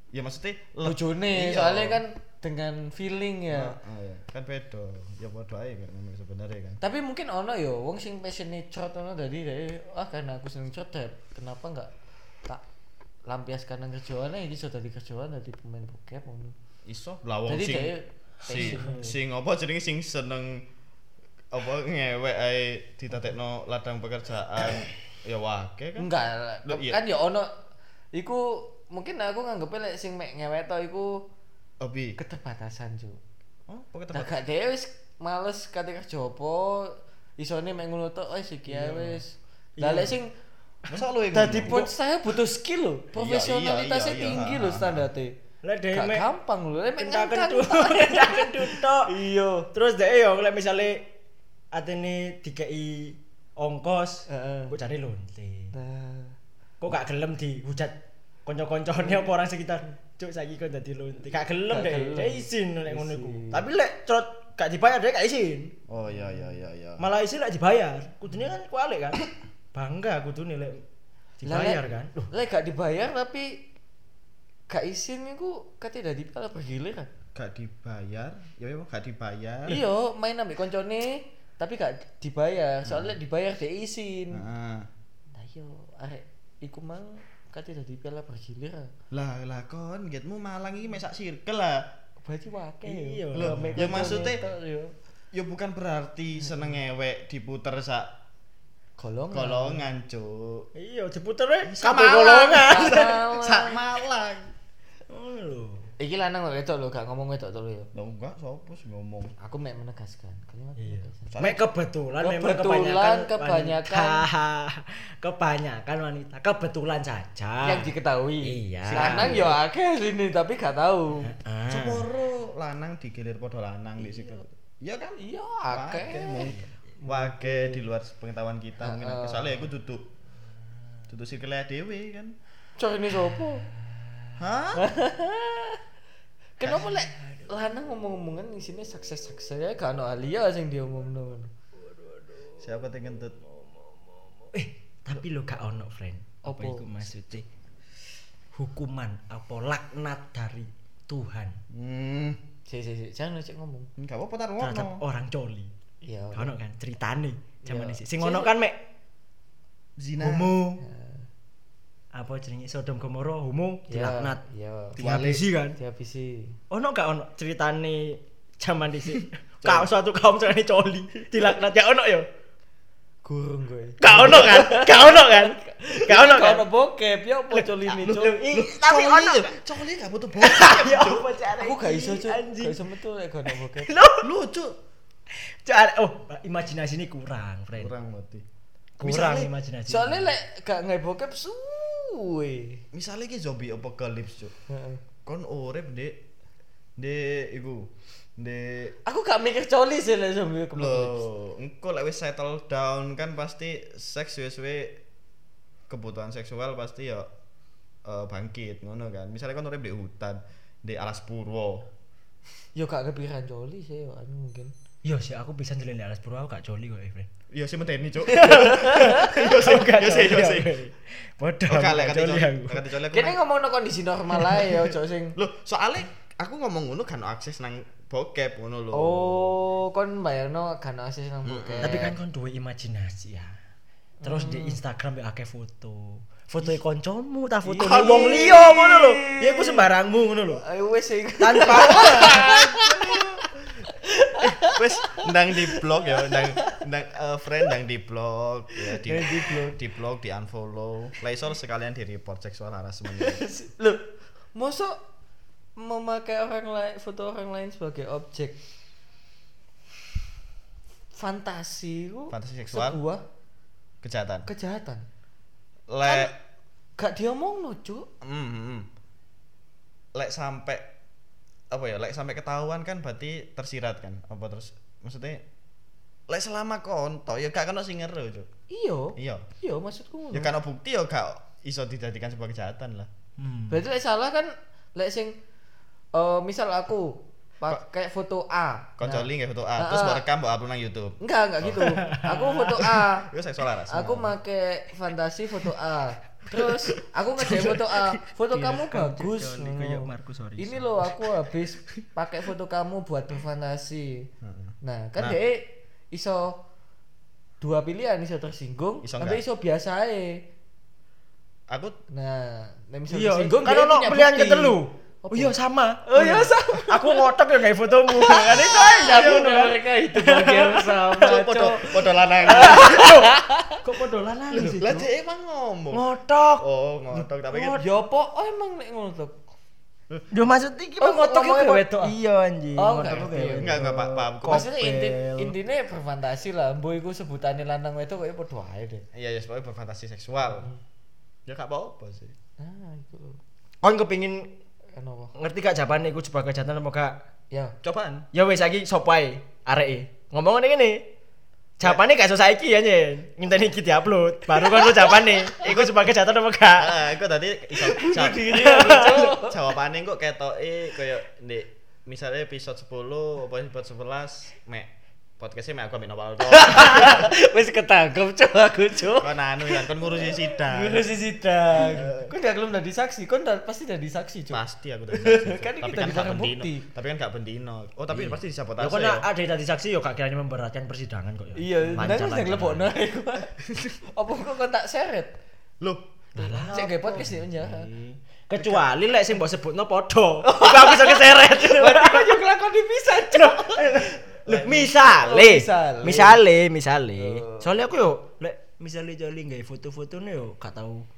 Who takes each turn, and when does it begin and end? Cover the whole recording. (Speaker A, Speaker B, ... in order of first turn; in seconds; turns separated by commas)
Speaker A: 0.1-2.0, Speaker B: 0.8-3.8, Speaker A: 3.5-6.8, Speaker B: 6.8-11.9, Speaker B: 13.3-16.5, Speaker A: 16.9-17.9, Speaker B: 17.5-19.1, Speaker A: 18.4-20.6, Speaker C: 18.5-19.0, Speaker A: 21.5-26.1, Speaker B: 26.0-27.5, Speaker A: 26.6-27.0, Speaker B: 28.1-31.2, Speaker A: 31.8-32.2, Speaker B: 32.2-33.2, Speaker A: 33.7-34.3, Speaker B: 34.1-40.3, Speaker C: 38.7-39.2, Speaker C: 39.8-40.2, Speaker C: 40.9-41.9, Speaker A: 40.9-41.8, Speaker B: 41.3-45.4, Speaker A: 43.1-45.1, Speaker C: 45.6-46.3, Speaker B: 45.9-49.7, Speaker C: 47.0-49.1, Speaker C: 49.7-51.1, Speaker C: 51.7-55.7, Speaker B: 54.3-54.7, Speaker B: 55.7-56.4, Speaker C: 56.8-65.7, Speaker B: 61.7-63.6, Speaker A: 65.9-67.1, Speaker B: 66.1-66.5, Speaker C: 67.0-70.8, Speaker C: 71.4-72.3, Speaker B: 71.4-73.6, Speaker B: 74.7-77.1, Speaker A: 77.3-79.8, Speaker B: 79.7-84.4, Speaker A: 82.8-83.2, Speaker A: 84.3-84.9, Speaker B: 85.3-88.9, Speaker A: 89.1-91.9, Speaker B: 92.2-94.9, Speaker C: 92.8-94.4, Speaker A: 93.3-94.4, Speaker A: 95.3-98.1, Speaker B: 99.0-99.8, Speaker A: 99.3-100.7, Speaker C: 100.7-103.2, Speaker A: 101.6-104.5, Speaker B: 102.7-103.8, Speaker C: 105.1-105.9, Speaker B: 106.0-107.9, Speaker A: 107.9-109.3, Speaker B: 109.4-111.4, Speaker C: 110.8-119.5, Speaker A: 111.3-111.6, Speaker B: 112.2-114.2, Speaker B: 117.6-121.3, Speaker A: 118.8-119.5, Speaker C: 121.2-122.1, Speaker A: 121.7-130.1, Speaker B: 125.2-127.8, Speaker C: 126.3-126.7, Speaker B: 128.8-129.7, Speaker A: 131.1-132.4, Speaker B: 132.8-133.6, Speaker C: 133.3-134.3, Speaker A: 134.4-134.8, Speaker B: 134.8-135.8, Speaker B: 136.6-141.5, Speaker C: 137.0-137.5, Speaker A: 142.6-143.4, Speaker C: 144.5-147.4, Speaker B: 146.4-146.8, Speaker C: 148.5-151.6, Speaker A: 151.7-152.4, Speaker B: 152.7-153.9, Speaker A: 154.0-155.0, Speaker C: 154.6-155.7, Speaker B: 156.0-156.5, Speaker C: 156.3-158.8, Speaker B: 157.6-158.5, Speaker A: 160.0-160.6, Speaker C: 160.2-160.8, Speaker B: 160.8-161.2, Speaker C: 162.1-164.4, Speaker B: 163.9-165.0, Speaker A: 165.0-165.5, Speaker C: 165.0-165.8, Speaker B: 165.7-166.6, Speaker C: 166.7-172.3, Speaker A: 169.6-169.9, Speaker B: 173.2-178.4, Speaker C: 174.0-176.7, Speaker C: 177.5-179.6, Speaker A: 178.1-181.3, Speaker C: 180.4-182.8, Speaker B: 181.6-183.9, Speaker C: 183.5-184.3, Speaker A: 184.2-184.8, Speaker C: 185.3-187.9, Speaker A: 187.8-188.4, Speaker C: 189.0-190.3, Speaker A: 189.0-189.5, Speaker B: 189.9-192.8, Speaker A: 192.9-194.5, Speaker B: 194.7-195.0, Speaker A: 195.2-196.2, Speaker A: 197.0-198.9, Speaker B: 199.0-201.2, Speaker A: 200.7-205.0, Speaker A: 205.9-207.3, Speaker A: 208.0-211.9, Speaker B: 212.7-214.7, Speaker C: 215.0-217.3, Speaker A: 217.5-220.8, Speaker C: 218.3-222.9, Speaker B: 218.5-219.5, Speaker A: 221.7-223.4, Speaker B: 223.1-225.3, Speaker C: 224.4-224.8, Speaker A: 225.3-229.4, Speaker B: 228.9-232.2, Speaker A: 231.4-232.2, Speaker C: 231.8-233.6, Speaker B: 234.2-234.8, Speaker C: 234.2-240.6, Speaker B: 237.7-239.9, Speaker B: 240.6-243.2, Speaker C: 241.4-242.6, Speaker A: 241.9-243.4, Speaker B: 244.0-246.8, Speaker A: 244.4-253.4, Speaker B: 248.8-249.8, Speaker B: 253.2-255.0, Speaker B: 255.8-258.6, Speaker B: 261.1-263.2, Speaker A: 262.3-263.0, Speaker A: 264.0-264.5, Speaker B: 264.4-265.0, Speaker A: 265.9-266.3, Speaker B: 266.0-266.3, Speaker B: 267.0-268.1, Speaker A: 268.2-268.9, Speaker A: 270.1-270.9, Speaker A: 271.7-275.4, Speaker A: 276.3-278.5, Speaker B: 278.7-280.5, Speaker A: 279.1-279.4, Speaker A: 280.3-283.1, Speaker C: 283.4-283.8, Speaker B: 283.7-285.4, Speaker B: 286.1-290.2, Speaker A: 289.0-291.8, Speaker B: 291.2-293.3, Speaker C: 291.8-292.8, Speaker A: 293.1-294.3, Speaker B: 293.9-304.3, Speaker C: 296.5-301.4, Speaker A: 304.4-305.4, Speaker B: 304.8-306.6, Speaker B: 307.6-310.4, Speaker A: 309.0-309.4, Speaker A: 311.7-312.0, Speaker B: 312.1-315.5, Speaker C: 313.1-321.2, Speaker B: 316.1-317.3, Speaker B: 318.1-323.8, Speaker A: 318.8-319.5, Speaker A: 321.2-323.2, Speaker C: 322.5-325.1, Speaker A: 324.5-326.0, Speaker C: 325.9-326.6, Speaker A: 326.6-327.8, Speaker B: 327.5-329.4, Speaker C: 330.3-335.5, Speaker B: 331.0-332.1, Speaker B: 332.8-333.8, Speaker A: 333.1-334.7, Speaker B: 334.4-339.1, Speaker A: 339.1-340.7, Speaker A: 341.4-342.3, Speaker B: 342.6-343.4, Speaker C: 343.8-344.5, Speaker B: 344.9-345.3, Speaker C: 345.3-347.1, Speaker A: 347.8-348.3, Speaker C: 348.3-351.0, Speaker C: 351.8-357.1, Speaker B: 354.8-355.5, Speaker A: 355.6-356.1, Speaker A: 356.8-367.3, Speaker B: 357.9-359.6, Speaker C: 358.5-359.3, Speaker B: 366.5-376.9, Speaker A: 369.1-371.1, Speaker A: 371.7-372.3, Speaker A: 374.5-379.3, Speaker C: 378.1-382.9, Speaker B: 381.6-383.5, Speaker A: 381.9-382.3, Speaker A: 383.6-384.0, Speaker B: 384.0-385.3, Speaker A: 385.8-386.9, Speaker C: 386.4-392.4, Speaker B: 386.7-387.9, Speaker B: 390.4-394.1, Speaker C: 393.2-401.1, Speaker A: 394.4-394.9, Speaker B: 395.1-396.4, Speaker B: 397.1-397.7